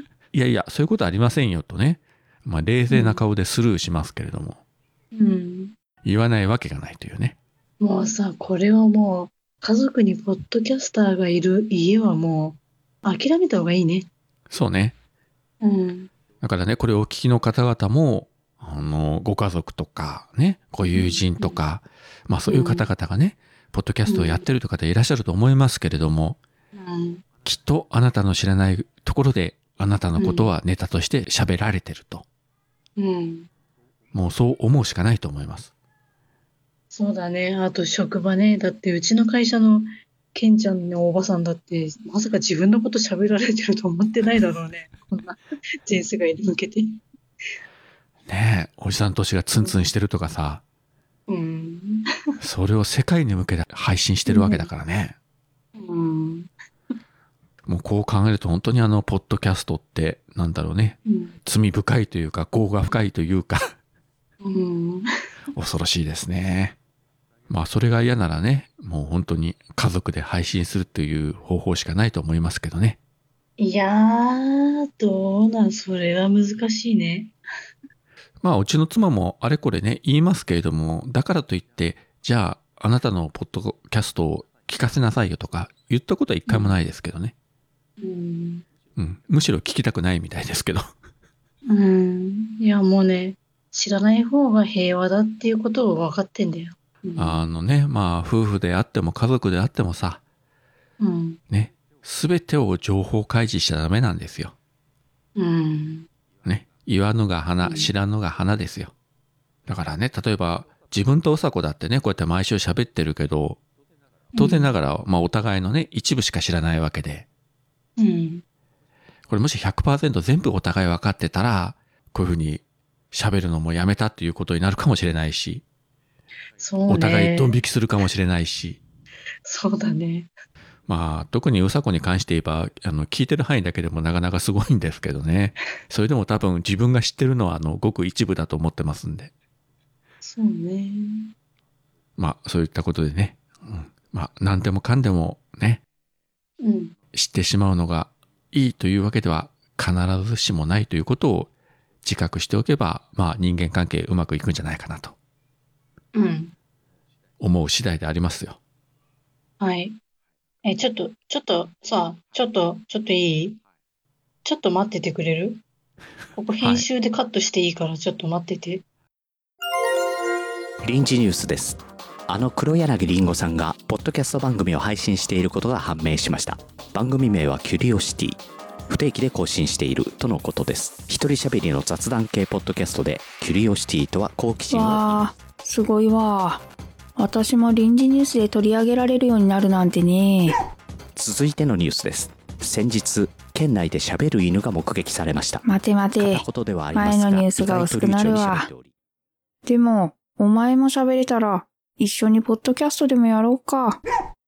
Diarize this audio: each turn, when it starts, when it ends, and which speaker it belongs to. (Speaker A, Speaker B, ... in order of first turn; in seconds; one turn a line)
Speaker A: 0.3-4.6
Speaker B: 2.9-3.2
Speaker B: 5.1-5.7
Speaker A: 6.0-7.4
Speaker B: 7.8-14.1
Speaker A: 14.5-14.9
Speaker B: 15.6-16.1
Speaker A: 16.4-26.4
Speaker B: 20.8-21.6
Speaker B: 22.5-22.9
Speaker B: 24.1-24.4
Speaker B: 26.7-27.2
Speaker A: 27.4-32.2
Speaker B: 30.2-30.5
Speaker B: 33.0-33.5
Speaker A: 34.1-35.7
Speaker B: 36.9-47.0
Speaker A: 48.3-50.6
Speaker B: 51.3-52.0
Speaker A: 52.4-55.1
Speaker B: 54.3-54.7
Speaker B: 55.8-56.5
Speaker A: 57.6-63.7
Speaker B: 61.1-61.4
Speaker B: 64.4-65.1
Speaker A: 65.5-66.8
Speaker A: 67.5-73.0
Speaker B: 73.6-77.3
Speaker A: 78.4-87.3
Speaker B: 86.5-86.7
Speaker B: 88.0-88.6
Speaker A: 89.0-90.9
Speaker B: 91.7-97.4
Speaker A: 97.2-100.2
Speaker B: 101.0-101.4
Speaker A: 101.5-104.5
Speaker B: 105.4-106.1
Speaker A: 106.4-108.9
Speaker B: 107.6-107.9
Speaker A: 109.7-113.6
Speaker B: 114.3-114.7
Speaker A: 114.3-117.2
Speaker B: 118.0-118.4
Speaker A: 119.3-125.6
Speaker B: 126.6-127.5
Speaker A: 126.9-128.8
Speaker B: 129.4-130.3
Speaker A: 130.9-139.3
Speaker B: 140.2-141.3
Speaker A: 142.2-145.8
Speaker B: 146.6-146.9
Speaker A: 147.1-151.5
Speaker A: 152.0-155.1
Speaker B: 156.1-156.5
Speaker A: 157.4-158.6
Speaker B: 159.6-160.0
Speaker B: 160.6-163.6
Speaker B: 164.4-165.6
Speaker B: 166.4-168.8
Speaker C: 170.8-185.2
Speaker D: 184.7-186.7
Speaker D: 187.2-190.6
Speaker C: 191.2-195.6
Speaker D: 195.6-198.7
Speaker C: 196.2-198.9
Speaker D: 199.6-204.0